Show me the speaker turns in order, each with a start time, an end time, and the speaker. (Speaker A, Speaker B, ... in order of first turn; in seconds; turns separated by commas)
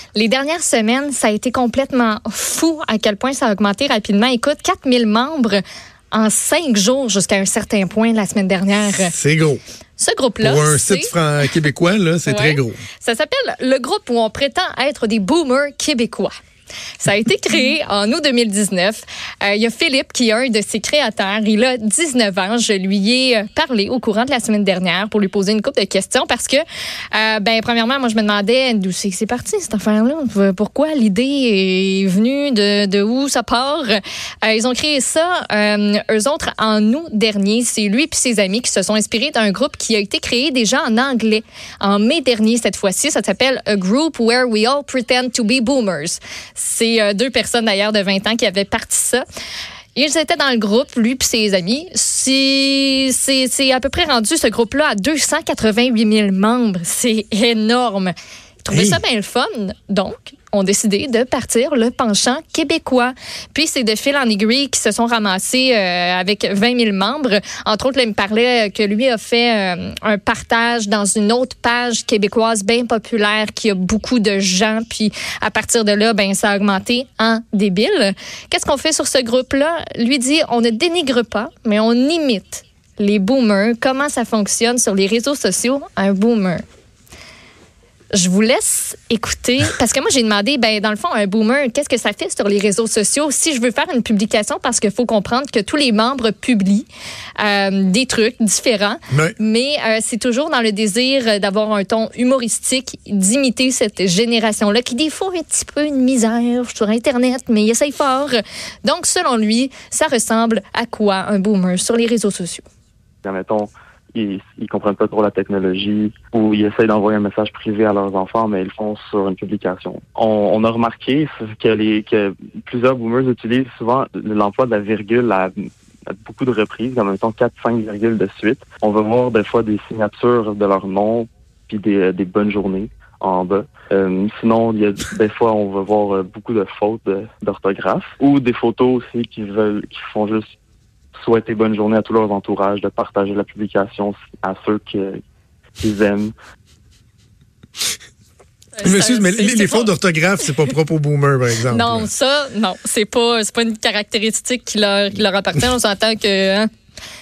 Speaker A: 0.1-5.6, Speaker A: 6.1-9.1, Speaker B: 8.9-9.6, Speaker A: 10.0-11.1, Speaker B: 10.4-12.8, Speaker A: 12.3-16.3, Speaker A: 17.0-49.2, Speaker A: 50.0-58.1, Speaker A: 58.6-86.6, Speaker B: 58.7-59.0, Speaker A: 88.1-96.9, Speaker A: 97.4-112.6, Speaker B: 99.1-99.3, Speaker C: 113.2-125.5, Speaker C: 126.1-140.4, Speaker C: 141.2-145.2, Speaker C: 145.8-146.3, Speaker A: 148.8-149.9, Speaker B: 148.8-152.1, Speaker A: 151.7-156.7